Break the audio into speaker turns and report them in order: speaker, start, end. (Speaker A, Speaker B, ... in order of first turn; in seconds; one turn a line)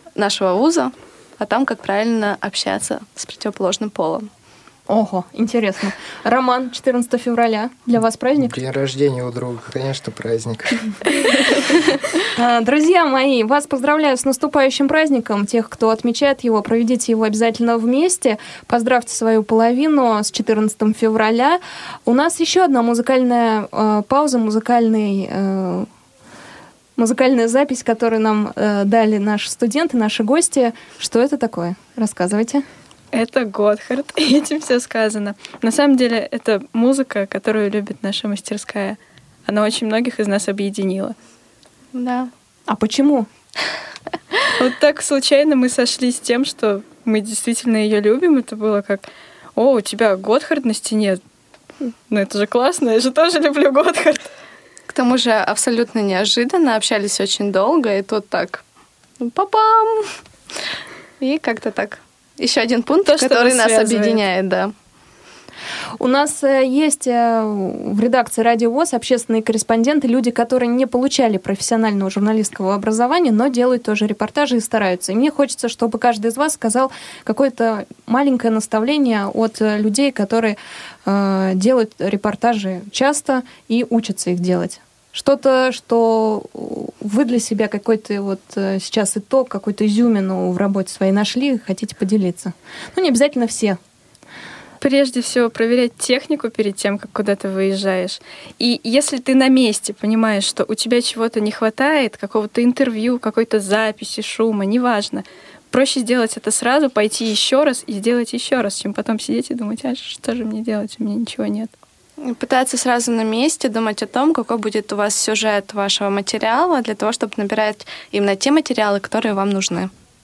Speaker A: 0.1-4.3
Speaker B: 4.9-8.5
Speaker C: 8.4-10.9
Speaker B: 12.3-25.9
Speaker B: 27.0-32.6
Speaker D: 33.1-41.2
Speaker A: 41.9-42.3
Speaker B: 42.7-43.3
Speaker D: 44.6-49.0
Speaker D: 49.6-51.2
Speaker D: 52.1-54.3
Speaker A: 54.9-58.6
Speaker A: 59.2-60.1
Speaker A: 61.2-64.7
Speaker D: 63.0-64.2
Speaker B: 66.0-93.8
Speaker D: 94.8-111.7
Speaker A: 112.2-119.9